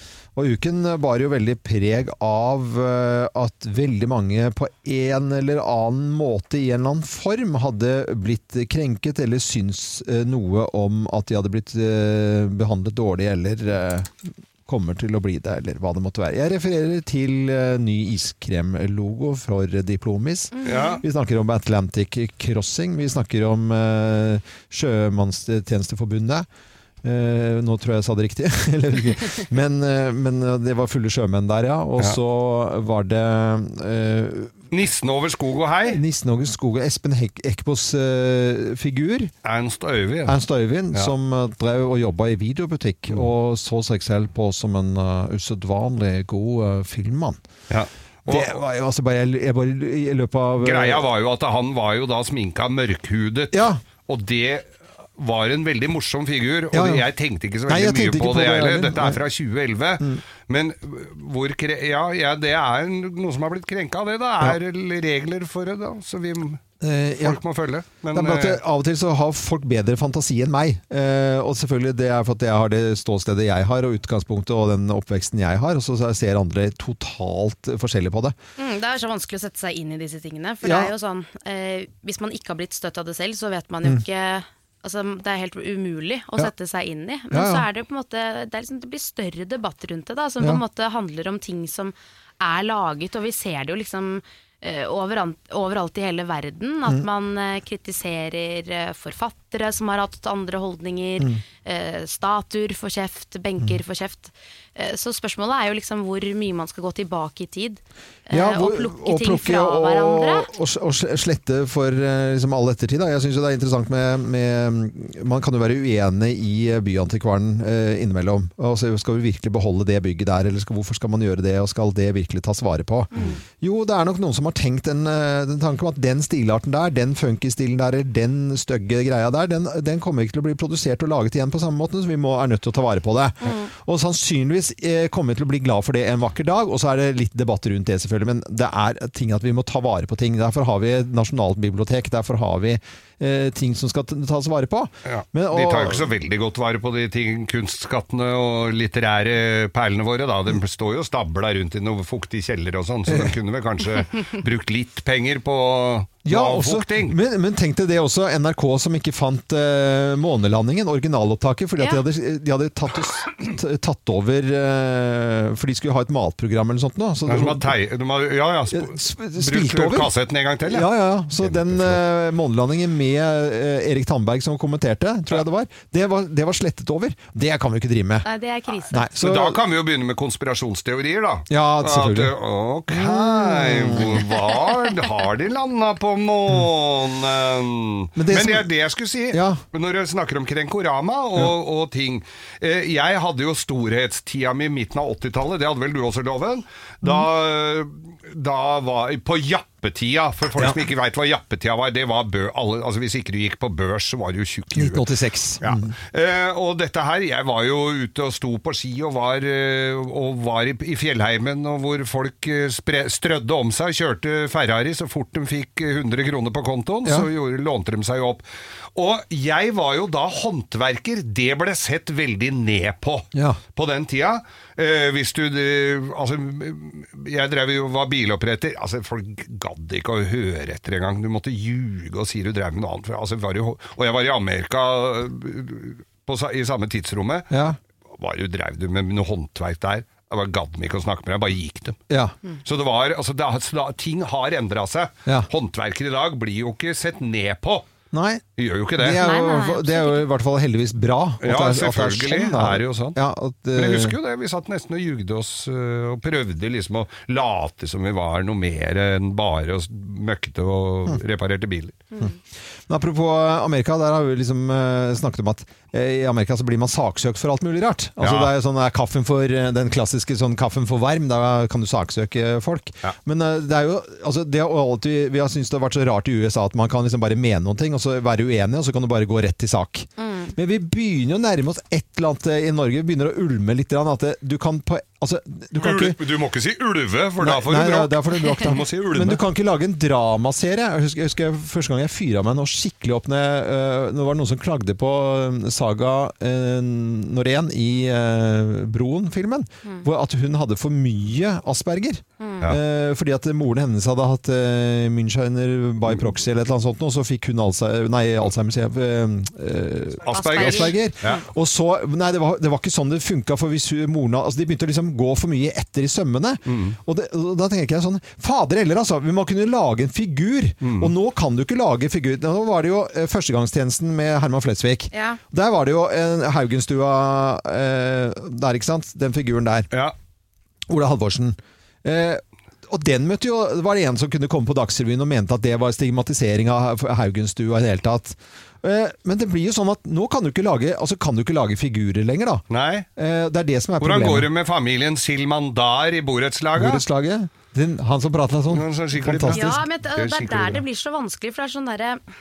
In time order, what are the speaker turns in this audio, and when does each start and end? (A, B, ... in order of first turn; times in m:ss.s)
0:00.4-0:26.4 A
0:20.6-0:21.0 B
0:20.7-0:21.0 C
0:27.0-0:34.5 A
0:34.7-0:36.0 C
0:35.9-0:39.3 A
0:39.4-0:40.4 C
0:40.3-0:47.4 A
0:47.7-0:48.6 C
0:48.3-0:51.1 A
0:50.6-1:06.6 C
0:53.5-0:53.8 A
0:56.7-0:57.0 A
0:57.7-0:59.2 A
1:06.8-1:07.4 A
1:07.2-1:08.6 C
1:08.1-1:18.3 A
1:18.6-1:50.5 B
1:20.6-1:20.9 A
1:27.3-1:27.6 A
1:48.3-2:26.1 A
2:03.1-2:03.4 B
2:13.4-2:13.7 B
2:25.0-2:37.2 C
2:33.1-2:33.3 A
2:36.2-2:47.7 A
2:41.8-2:42.0 B
2:47.2-2:52.0 C
2:48.7-2:50.1 A
2:50.7-2:58.3 A
2:58.2-2:58.9 B
2:58.9-2:59.6 A
2:59.1-3:25.1 C
3:01.5-3:02.3 A
3:02.9-3:04.3 A
3:08.2-3:08.7 A
3:09.3-3:09.6 A
3:24.7-3:26.0 A
3:25.6-3:38.4 C
3:38.9-3:57.5 C
3:43.3-3:43.6 A
3:57.5-3:57.8 A
3:58.1-4:02.0 C
4:02.1-4:02.3 A
4:02.6-4:07.9 C
4:08.1-4:08.4 A
4:08.6-4:09.2 C
4:09.0-4:14.2 A
4:09.2-4:10.2 B
4:11.4-4:13.2 C
4:13.7-4:22.0 C
4:22.9-4:46.2 A
4:28.2-4:28.5 C
4:40.2-4:40.5 B
4:45.8-4:49.4 C
4:47.4-5:29.9 A
5:02.4-5:02.7 B
5:10.2-5:11.4 C
5:10.3-5:11.0 B
5:16.7-5:17.0 C
5:20.8-5:21.1 C
5:25.1-5:25.4 B
5:30.9-5:42.6 A
5:42.7-5:43.1 C
5:43.2-5:44.5 A
5:44.0-5:47.0 C
5:46.8-5:49.8 A
5:48.7-5:50.8 C
5:49.5-5:52.2 B